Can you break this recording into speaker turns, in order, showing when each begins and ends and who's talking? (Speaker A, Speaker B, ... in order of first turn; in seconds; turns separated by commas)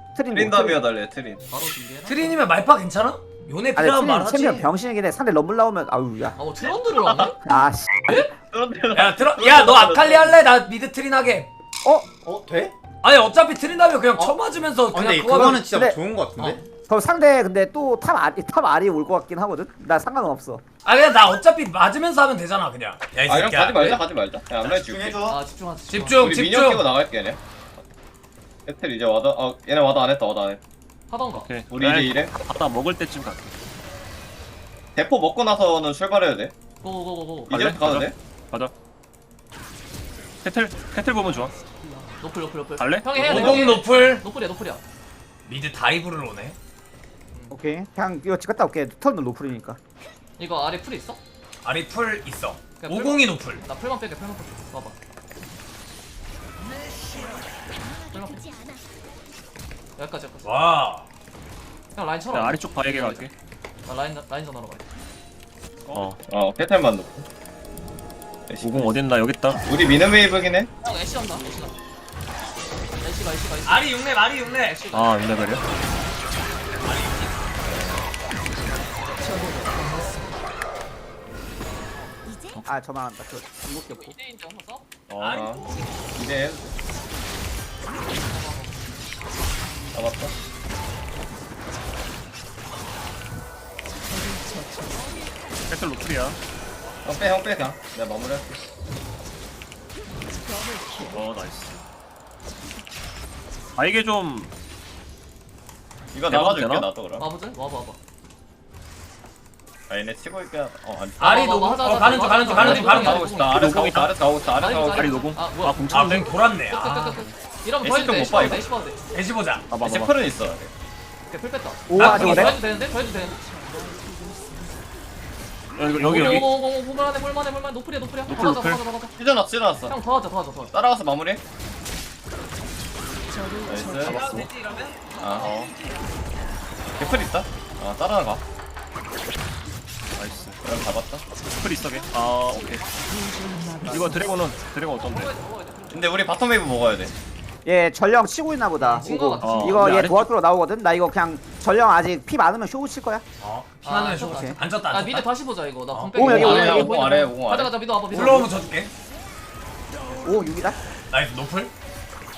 Speaker A: 0.1-0.9, Speaker B: 0.3-1.4, Speaker C: 1.5-2.4, Speaker D: 2.0-4.7, Speaker A: 3.8-6.4, Speaker C: 6.4-7.4, Speaker B: 7.0-7.3, Speaker A: 7.4-8.3, Speaker B: 8.5-10.3, Speaker D: 8.9-11.5, Speaker A: 11.8-12.1, Speaker E: 12.2-12.7, Speaker D: 13.0-15.7, Speaker E: 14.9-16.6, Speaker A: 15.7-16.0, Speaker A: 16.7-20.6, Speaker D: 20.8-24.0, Speaker B: 23.3-25.2, Speaker E: 24.6-25.4, Speaker C: 25.2-26.4, Speaker D: 25.9-26.9, Speaker B: 26.2-27.4, Speaker B: 28.6-30.6, Speaker C: 31.1-31.5, Speaker F: 31.3-33.5, Speaker B: 31.7-32.3, Speaker B: 34.9-36.5, Speaker C: 36.8-37.5, Speaker B: 37.5-38.1, Speaker F: 37.5-38.7, Speaker F: 40.4-41.5, Speaker C: 42.2-44.8, Speaker F: 42.8-43.6, Speaker D: 43.1-44.2, Speaker D: 45.5-46.5, Speaker C: 47.3-47.6, Speaker A: 47.5-49.8, Speaker C: 50.4-51.2, Speaker D: 51.6-53.6, Speaker C: 52.8-55.0, Speaker C: 58.1-58.5, Speaker C: 60.0-60.5, Speaker D: 60.4-61.1, Speaker C: 61.9-63.2, Speaker F: 62.3-63.3, Speaker C: 63.8-64.8, Speaker F: 65.9-66.2, Speaker B: 66.3-67.2, Speaker B: 68.5-68.9, Speaker F: 68.6-69.6, Speaker B: 69.6-70.7, Speaker C: 70.8-71.8, Speaker C: 73.0-75.6, Speaker D: 73.7-74.8, Speaker F: 74.9-75.6, Speaker D: 76.8-77.5, Speaker C: 78.7-79.6, Speaker A: 82.6-83.5, Speaker C: 83.6-84.8, Speaker F: 85.1-85.4, Speaker D: 85.2-85.7, Speaker B: 85.3-85.6, Speaker B: 86.2-86.7, Speaker C: 88.2-89.0, Speaker B: 89.9-90.3, Speaker C: 95.0-95.3, Speaker F: 95.7-96.4, Speaker B: 97.0-98.6, Speaker F: 101.0-101.8, Speaker F: 103.8-104.5, Speaker B: 106.1-107.3, Speaker F: 106.3-106.9, Speaker C: 107.2-108.0, Speaker B: 109.9-111.6, Speaker D: 111.2-113.2, Speaker C: 111.2-113.7, Speaker B: 112.5-115.2, Speaker F: 113.4-114.1, Speaker C: 114.5-116.2, Speaker F: 114.9-116.3, Speaker D: 115.9-117.2, Speaker C: 116.7-119.0, Speaker B: 117.8-118.7, Speaker D: 119.1-119.7, Speaker F: 119.7-120.1, Speaker B: 119.8-120.7, Speaker C: 121.3-123.4, Speaker A: 121.9-122.6, Speaker F: 125.7-126.5, Speaker C: 125.9-129.1, Speaker F: 128.3-128.8, Speaker B: 129.2-130.0, Speaker C: 129.9-130.7, Speaker B: 130.7-131.4, Speaker B: 133.7-134.2, Speaker F: 134.0-134.5, Speaker D: 134.0-135.0, Speaker B: 135.2-135.5, Speaker F: 135.4-135.7, Speaker B: 137.0-138.4, Speaker F: 140.1-140.6, Speaker B: 140.6-141.2, Speaker F: 141.6-142.8, Speaker F: 143.8-145.3, Speaker C: 144.9-146.2, Speaker B: 145.9-147.1, Speaker A: 147.6-153.2, Speaker C: 148.8-149.9, Speaker F: 149.4-150.3, Speaker D: 153.4-155.3, Speaker C: 153.8-158.7, Speaker A: 154.2-154.6, Speaker D: 155.9-156.2, Speaker A: 156.1-157.0, Speaker B: 156.2-157.8, Speaker D: 158.1-158.9, Speaker A: 160.2-160.8, Speaker D: 161.1-161.7